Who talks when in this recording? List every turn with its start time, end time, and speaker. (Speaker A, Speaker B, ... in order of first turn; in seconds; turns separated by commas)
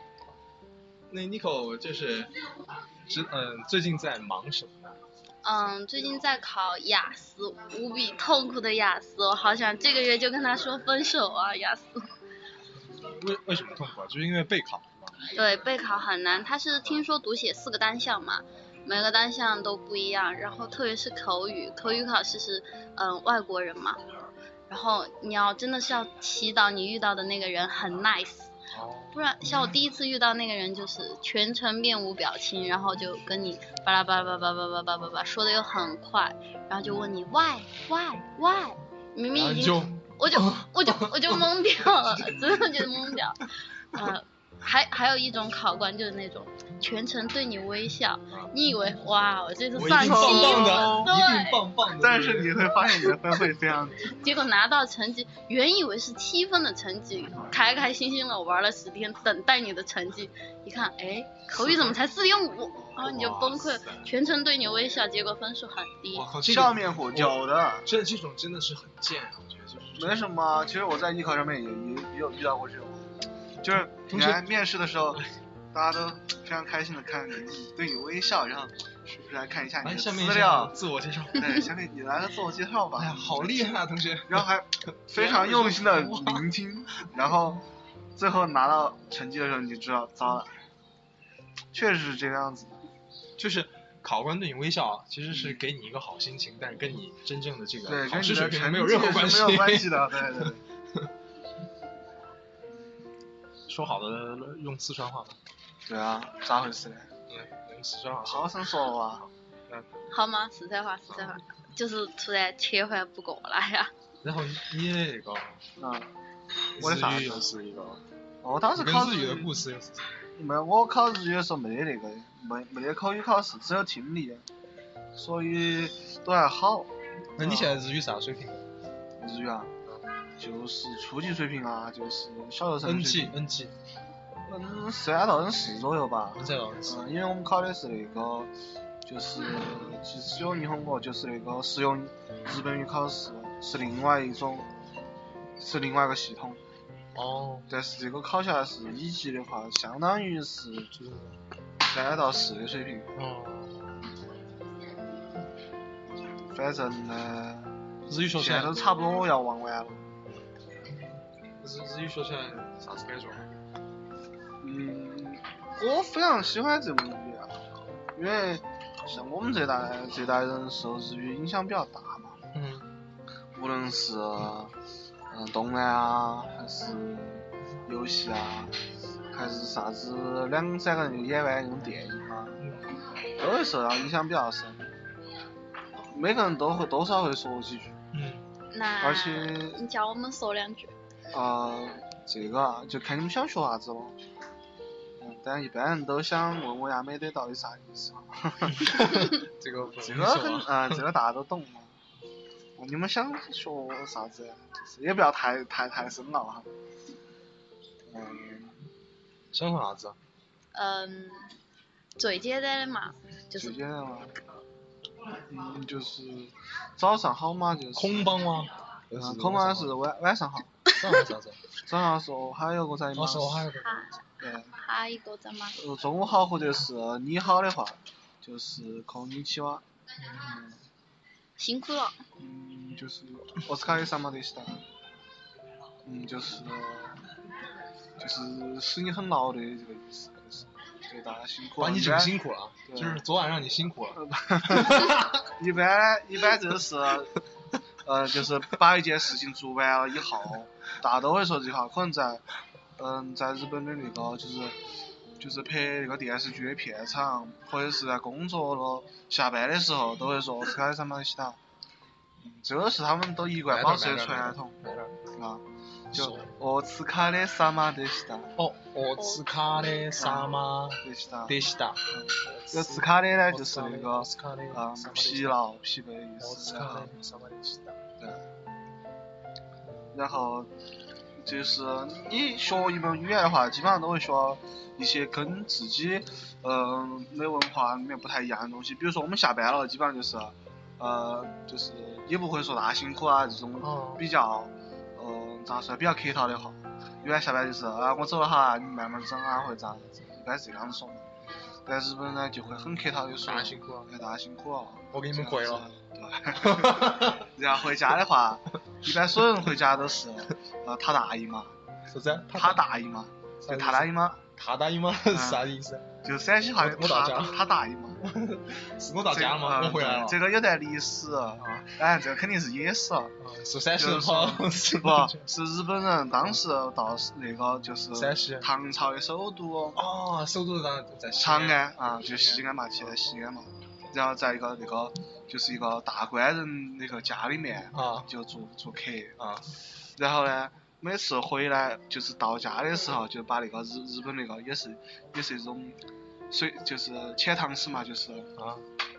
Speaker A: 1.1-2.3, Speaker A: 3.1-5.0, Speaker B: 5.4-12.0, Speaker A: 13.0-15.1, Speaker B: 15.3-24.0, Speaker B: 24.7-28.5, Speaker A: 28.7-29.2, Speaker B: 29.1-51.6, Speaker C: 36.8-37.1, Speaker A: 39.3-41.5, Speaker C: 42.3-42.7, Speaker A: 49.7-52.9, Speaker C: 49.8-51.1, Speaker C: 52.0-54.2, Speaker B: 54.1-66.3, Speaker A: 61.6-61.9, Speaker C: 62.7-63.1, Speaker A: 63.0-64.1, Speaker A: 66.2-70.3, Speaker C: 66.2-67.9, Speaker C: 70.0-73.0, Speaker C: 73.6-80.8, Speaker A: 73.7-74.5, Speaker A: 79.8-81.6, Speaker C: 81.3-87.6, Speaker A: 83.0-86.5, Speaker C: 88.2-90.5, Speaker C: 91.7-92.8, Speaker A: 93.4-101.1, Speaker C: 95.3-95.6, Speaker C: 97.8-100.6, Speaker A: 103.7-105.4, Speaker C: 105.9-107.1, Speaker A: 107.3-108.5, Speaker C: 108.2-109.2, Speaker A: 109.2-109.8, Speaker B: 110.1-113.9, Speaker A: 114.2-115.6, Speaker C: 115.8-116.1, Speaker A: 116.8-118.0, Speaker C: 116.8-117.5, Speaker C: 118.4-119.5, Speaker A: 118.8-120.1, Speaker C: 120.4-124.5, Speaker C: 125.2-127.8, Speaker A: 127.4-128.7, Speaker C: 129.2-129.7, Speaker C: 130.4-133.4, Speaker A: 132.8-133.7, Speaker C: 134.5-138.5, Speaker A: 136.4-137.0, Speaker C: 139.0-144.7, Speaker C: 145.6-146.6, Speaker A: 147.1-147.7, Speaker C: 147.7-151.0, Speaker A: 151.0-151.4, Speaker C: 151.8-153.1, Speaker A: 153.2-154.0, Speaker C: 156.3-157.7, Speaker A: 158.1-158.8, Speaker C: 158.3-160.1, Speaker A: 161.6-163.5, Speaker C: 164.6-167.6, Speaker C: 168.1-172.4, Speaker A: 172.5-172.9, Speaker C: 173.5-174.7, Speaker C: 175.3-178.7, Speaker C: 179.3-182.6, Speaker A: 182.6-182.9, Speaker C: 183.4-184.9, Speaker C: 186.1-188.0, Speaker A: 188.1-188.5, Speaker B: 188.7-190.9, Speaker C: 189.0-189.8, Speaker C: 191.3-194.2, Speaker C: 195.2-199.3, Speaker A: 198.7-201.0, Speaker C: 200.0-201.9, Speaker C: 202.8-206.7, Speaker C: 208.1-208.8, Speaker A: 209.5-210.2, Speaker B: 210.7-211.5, Speaker B: 212.2-213.8, Speaker C: 213.6-214.3, Speaker C: 215.5-218.3, Speaker A: 217.9-220.0, Speaker C: 219.2-220.7, Speaker A: 220.9-221.6, Speaker C: 221.8-223.7, Speaker A: 223.1-224.1, Speaker B: 223.8-225.8, Speaker C: 224.4-224.7, Speaker C: 225.8-230.8, Speaker A: 230.2-230.5, Speaker B: 231.6-232.2, Speaker C: 232.4-234.8, Speaker C: 236.0-237.2, Speaker C: 238.2-242.3, Speaker A: 241.8-245.3, Speaker C: 242.9-243.2, Speaker C: 244.1-247.3, Speaker C: 248.0-252.4, Speaker C: 253.0-254.8, Speaker C: 255.4-261.6, Speaker C: 262.4-264.8, Speaker A: 263.6-265.2, Speaker C: 265.3-268.5, Speaker A: 266.1-266.5, Speaker A: 268.6-275.6, Speaker B: 269.2-269.8, Speaker C: 270.1-271.6, Speaker C: 272.1-277.1, Speaker A: 276.4-278.0, Speaker C: 278.2-278.4, Speaker C: 280.1-280.7, Speaker C: 281.4-301.2, Speaker A: 293.8-294.2, Speaker C: 301.9-311.7, Speaker A: 303.4-304.1, Speaker A: 305.1-305.9, Speaker A: 306.6-307.5, Speaker A: 312.1-312.8, Speaker C: 312.5-314.4, Speaker A: 313.6-316.1, Speaker C: 315.3-315.7, Speaker C: 316.2-318.2, Speaker A: 316.8-317.6, Speaker A: 318.2-320.4, Speaker C: 319.3-323.4, Speaker A: 323.4-325.4, Speaker C: 324.0-330.0, Speaker A: 328.1-328.7, Speaker A: 329.9-332.7, Speaker C: 331.4-339.4, Speaker A: 337.9-338.3, Speaker A: 339.4-339.6, Speaker C: 340.2-348.5, Speaker A: 348.6-348.8